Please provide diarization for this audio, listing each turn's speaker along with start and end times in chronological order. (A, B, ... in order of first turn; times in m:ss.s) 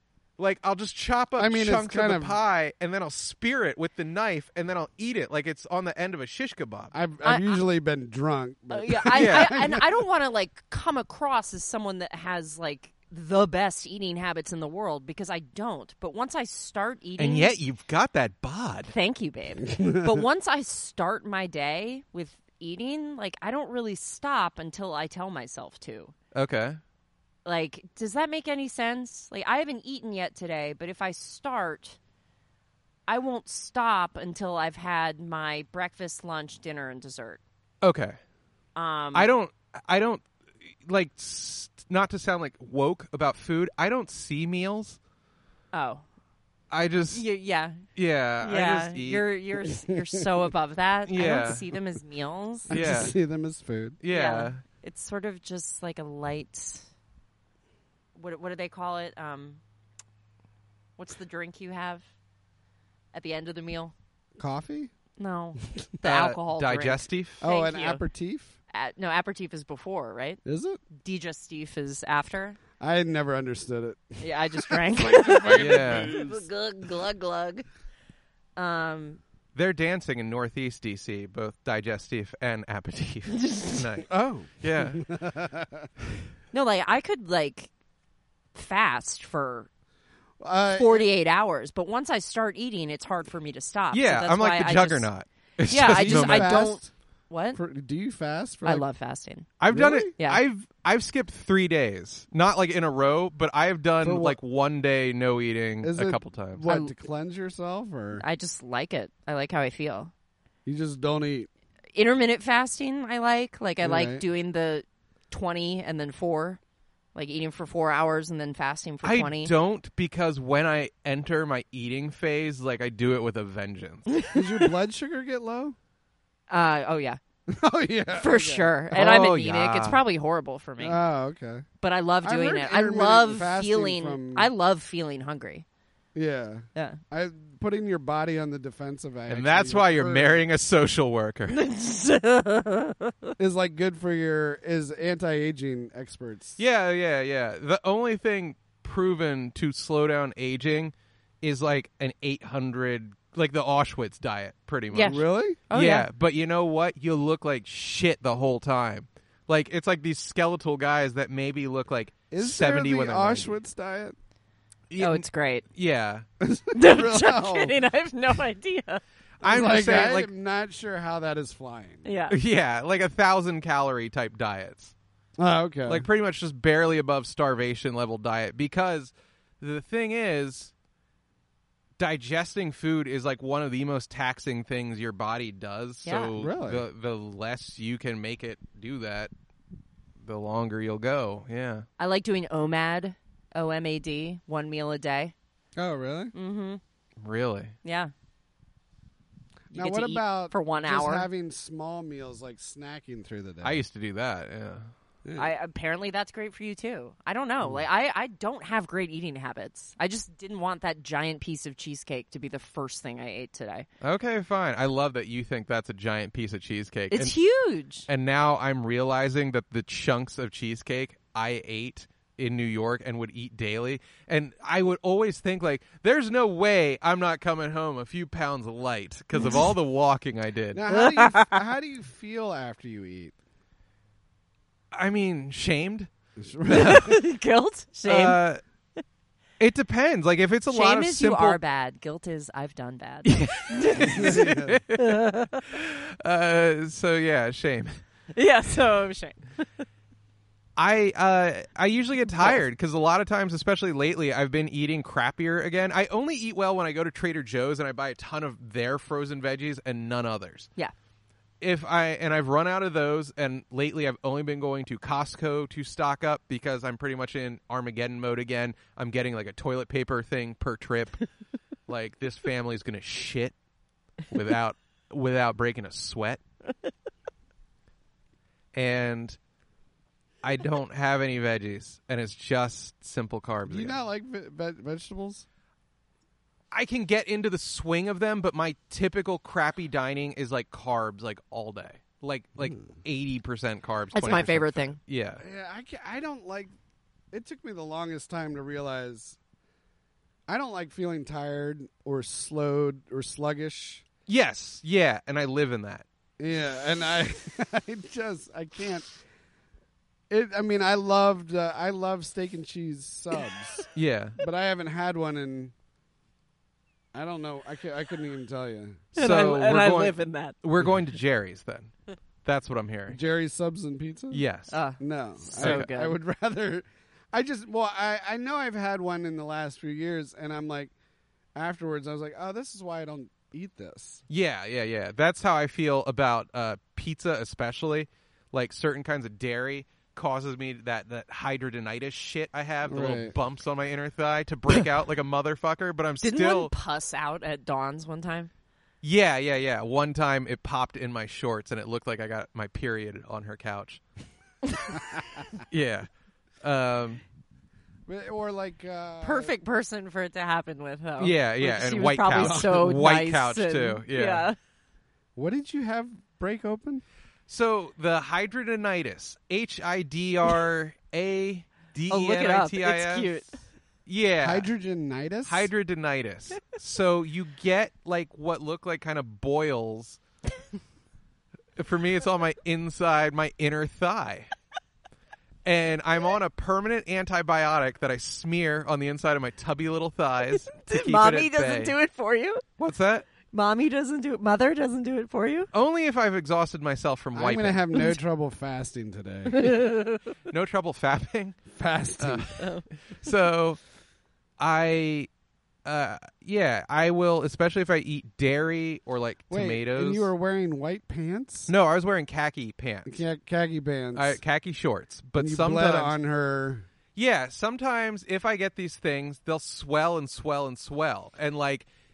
0:00.4-0:07.0 A
0:01.4-0:02.4 B
0:06.9-0:09.9 B
0:07.2-0:07.6 C
0:08.7-0:17.6 C
0:09.1-0:09.6 A
0:17.2-0:18.9 A
0:18.9-0:26.1 C
0:19.6-0:20.2 B
0:26.3-0:26.8 A
0:27.4-0:32.0 C
0:33.1-0:37.4 C
0:37.8-0:38.2 A
0:38.8-0:39.3 C
0:39.1-0:40.3 A
0:40.8-0:45.0 A
0:45.7-0:46.0 C
0:46.7-0:47.2 A
0:47.1-0:47.8 C
0:48.0-0:49.2 A
0:48.4-0:52.8 C
0:51.1-0:51.6 A
0:52.7-0:54.0 B
0:52.7-0:53.1 A
0:54.0-0:54.6 A
0:54.1-0:56.9 C
0:58.2-0:59.6 C
1:01.0-1:02.0 C
1:03.1-1:03.9 C
1:04.4-1:04.9 B
1:05.2-1:08.0 C
1:06.0-1:07.4 A
1:07.4-1:08.6 B
1:08.7-1:10.4 C
1:10.4-1:10.8 B
1:11.0-1:12.6 C
1:12.8-1:16.5 B
1:14.2-1:17.7 C
1:15.5-1:16.2 A
1:18.6-1:19.2 C
1:19.6-1:25.1 A
1:23.4-1:23.8 C
1:24.1-1:25.9 B
1:26.5-1:27.7 C
1:28.5-1:29.7 C
1:30.4-1:31.1 B
1:30.7-1:35.1 C
1:33.9-1:36.7 A
1:35.7-1:37.6 C
1:35.9-1:36.9 B
1:37.6-1:38.8 B
1:38.6-1:39.5 C
1:39.6-1:46.6 A
1:39.7-1:40.1 B
1:44.0-1:44.4 B
1:45.8-1:48.2 B
1:46.7-1:46.9 C
1:48.2-1:50.1 C
1:50.7-1:51.5 B
1:52.0-1:56.6 C
1:53.8-1:54.2 B
1:57.2-1:59.5 C
1:59.0-2:04.1 A
2:04.1-2:04.4 C
2:04.3-2:05.8 B
2:06.5-2:07.2 C
2:07.5-2:08.8 B
2:08.2-2:11.0 C
2:08.9-2:10.0 A
2:10.8-2:11.7 B
2:11.8-2:15.6 C
2:12.2-2:14.5 B
2:16.2-2:20.4 B
2:19.3-2:21.6 A
2:21.5-2:23.3 C
2:23.4-2:26.6 B
2:26.6-2:43.5 A
2:34.9-2:36.1 C
2:35.0-2:35.6 B
2:42.3-2:44.2 B
2:44.9-2:46.2 A
2:45.0-2:45.6 C
2:46.4-2:47.7 B
2:46.7-2:49.0 C
2:49.4-2:50.3 A
2:49.4-2:52.1 B
2:52.0-2:52.4 C
2:52.3-2:54.9 A
2:55.4-2:56.1 B
2:55.9-3:00.7 A
3:02.0-3:09.3 A
3:06.0-3:06.3 C
3:06.4-3:06.8 B
3:10.2-3:11.9 A
3:12.0-3:15.3 C
3:15.8-3:16.3 B
3:16.3-3:16.8 C
3:17.2-3:17.7 A
3:17.8-3:18.1 C
3:19.7-3:23.8 B
3:19.7-3:21.3 C
3:23.6-3:24.9 A
3:25.2-3:25.5 B
3:25.4-3:33.9 C
3:34.0-3:37.4 A
3:37.1-3:38.1 C
3:38.1-3:50.8 A
3:49.4-3:49.7 C
3:50.7-3:53.4 B
3:50.9-3:51.6 C
3:54.9-3:56.1 A
3:56.4-3:57.2 B
3:56.7-3:58.4 C
3:56.8-3:57.0 A
3:58.0-3:58.6 A
3:59.6-4:01.6 A
4:00.7-4:05.6 C
4:03.2-4:08.0 A
4:04.1-4:04.8 B
4:08.3-4:09.6 C
4:10.8-4:20.7 A
4:12.3-4:12.6 C
4:21.6-4:31.2 A
4:31.9-4:33.6 A
4:34.3-4:36.4 A
4:38.7-4:39.4 A
4:40.4-4:44.0 A
4:43.7-4:45.5 B
4:46.7-4:55.4 A
4:54.1-4:55.0 C
4:55.4-4:56.7 B
4:57.3-4:59.4 B
5:00.5-5:04.0 B
5:04.3-5:06.0 A
5:06.4-5:09.1 B
5:10.3-5:15.7 B
5:13.9-5:14.4 A
5:17.1-5:19.0 B
5:19.1-5:21.9 A
5:19.2-5:20.6 C
5:22.4-5:23.2 A
5:23.1-5:24.4 B
5:24.3-5:24.8 A
5:24.7-5:26.2 C
5:25.0-5:30.9 B
5:25.6-5:25.9 A
5:31.6-5:34.2 B
5:34.3-5:46.7 A
5:42.9-5:43.4 B
5:46.2-5:48.5 C
5:49.0-5:54.0 A
5:55.0-5:55.5 B
5:55.7-5:56.1 A
5:56.6-5:57.2 A
5:58.1-5:59.6 B
5:59.2-6:04.6 C
6:01.2-6:04.5 A
6:02.4-6:02.7 B
6:05.4-6:07.0 B
6:07.5-6:13.4 A
6:12.1-6:13.6 C
6:14.1-6:14.7 A
6:14.4-6:15.7 B
6:15.5-6:20.2 A
6:21.8-6:24.5 A
6:25.6-6:31.9 A
6:30.5-6:32.6 C
6:32.8-6:33.3 A
6:33.5-6:35.7 C
6:35.7-6:38.0 A
6:37.3-6:39.7 B
6:39.5-6:40.3 C
6:40.5-6:41.6 A
6:41.7-6:42.5 B
6:42.2-6:43.8 A
6:42.6-6:42.9 C
6:44.6-6:45.3 A
6:45.8-6:50.3 A
6:49.5-6:51.7 B
6:51.7-6:53.2 A
6:53.1-6:54.4 B
6:54.2-6:56.2 A
6:55.4-6:56.9 B
6:57.2-7:01.9 A